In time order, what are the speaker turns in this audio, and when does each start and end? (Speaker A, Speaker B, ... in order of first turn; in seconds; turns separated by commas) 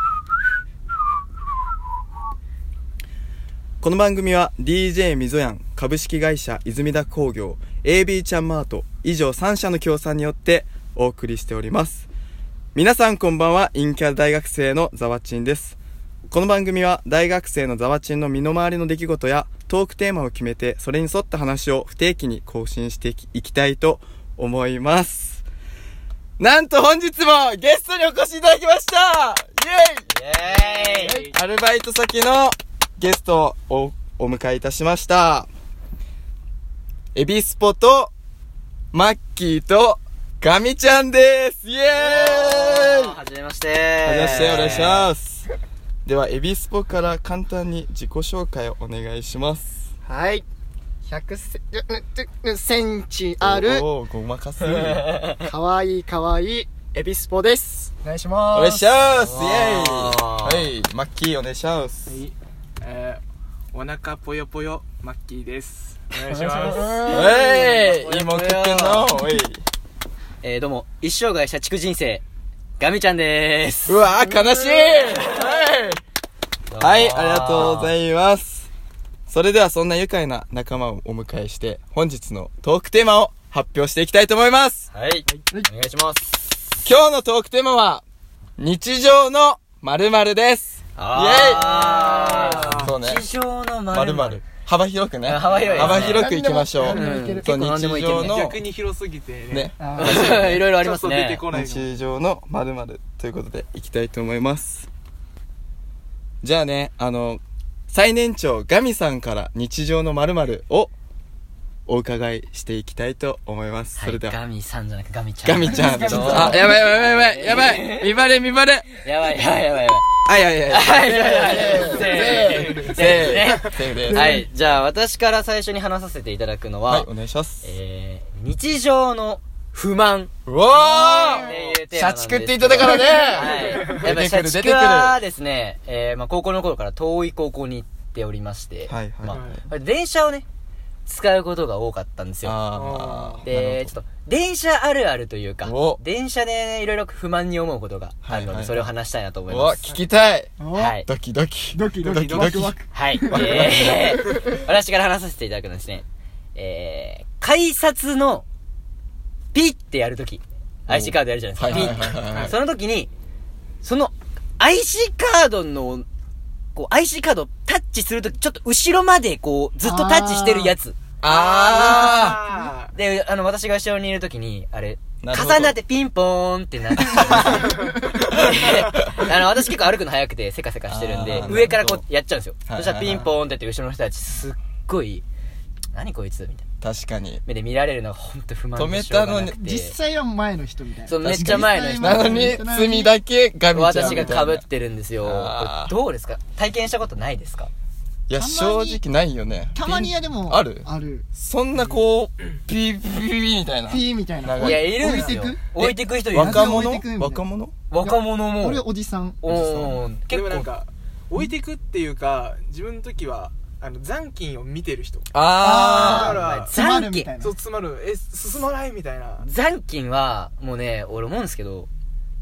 Speaker A: 3.8-12.1, Speaker A: 12.7-15.8, Speaker A: 16.3-25.4, Speaker A: 26.4-30.0, Speaker B: 30.1-31.3, Speaker C: 30.5-31.3, Speaker A: 31.1-35.5, Speaker A: 37.1-38.1, Speaker A: 38.9-43.2, Speaker B: 42.0-45.1, Speaker A: 44.0-45.5, Speaker A: 46.0-49.9, Speaker D: 50.0-50.4, Speaker D: 51.0-53.9, Speaker A: 53.4-55.1, Speaker B: 54.7-55.4, Speaker D: 55.4-58.9, Speaker A: 58.5-62.2, Speaker B: 59.0-60.7, Speaker C: 62.1-63.2, Speaker C: 63.7-66.9, Speaker B: 66.5-69.1, Speaker D: 66.7-67.0, Speaker A: 67.0-69.6, Speaker B: 70.4-72.2, Speaker B: 72.8-74.0, Speaker A: 73.8-76.0, Speaker B: 76.7-77.9, Speaker A: 76.8-78.7, Speaker A: 79.3-84.9, Speaker B: 84.9-86.5, Speaker A: 86.8-88.0, Speaker A: 88.6-91.9, Speaker B: 91.0-94.4, Speaker C: 91.5-92.9, Speaker A: 92.7-93.2, Speaker A: 93.9-98.6, Speaker B: 95.2-96.3, Speaker C: 95.5-96.0, Speaker D: 95.8-97.5, Speaker B: 96.9-98.4, Speaker C: 98.2-101.9, Speaker A: 99.5-100.7, Speaker D: 99.8-100.2, Speaker B: 100.0-101.4, Speaker A: 101.5-104.9, Speaker A: 106.4-110.9, Speaker A: 111.9-114.4, Speaker B: 114.0-118.1, Speaker A: 115.4-118.9, Speaker D: 115.7-116.8, Speaker B: 119.0-127.1, Speaker A: 120.2-124.4, Speaker C: 121.8-123.5, Speaker D: 123.9-124.5, Speaker A: 126.8-127.7, Speaker B: 127.6-130.3, Speaker A: 130.4-135.2, Speaker D: 130.8-131.6, Speaker B: 131.3-140.4, Speaker C: 133.5-134.0, Speaker A: 138.9-139.6, Speaker C: 139.2-139.6, Speaker B: 141.1-142.6, Speaker A: 142.4-144.0, Speaker C: 142.7-143.4, Speaker B: 143.4-149.8, Speaker A: 145.6-146.0, Speaker A: 148.2-148.9, Speaker A: 149.5-152.7, Speaker D: 150.6-151.0, Speaker B: 150.7-151.1, Speaker D: 151.7-153.9, Speaker C: 152.0-152.6, Speaker B: 152.9-158.4, Speaker A: 153.3-154.2, Speaker B: 159.5-163.1, Speaker A: 160.9-162.5, Speaker C: 161.7-162.5, Speaker B: 163.8-166.1, Speaker B: 166.7-171.0, Speaker D: 169.8-170.7, Speaker A: 171.2-172.4, Speaker C: 171.2-172.9, Speaker B: 172.9-185.2, Speaker A: 175.2-175.8, Speaker A: 177.1-177.7, Speaker A: 180.9-182.0, Speaker A: 182.7-183.3, Speaker B: 185.9-186.6, Speaker A: 186.8-187.4, Speaker B: 187.4-189.9, Speaker A: 188.8-189.6, Speaker D: 189.5-193.2, Speaker B: 191.1-192.6, Speaker A: 191.2-194.6, Speaker B: 193.7-197.7, Speaker D: 193.9-194.4, Speaker A: 195.2-195.9, Speaker A: 198.3-204.9, Speaker D: 198.3-199.0, Speaker D: 199.7-201.3, Speaker D: 203.9-205.6, Speaker B: 204.6-206.9, Speaker A: 205.8-207.7, Speaker D: 206.3-207.4, Speaker B: 207.9-208.8, Speaker D: 208.0-210.0, Speaker B: 209.4-210.7, Speaker C: 210.3-215.3, Speaker A: 215.3-216.4, Speaker D: 215.6-217.6, Speaker C: 215.9-216.7, Speaker B: 216.5-217.3, Speaker C: 217.4-219.5, Speaker B: 219.4-221.9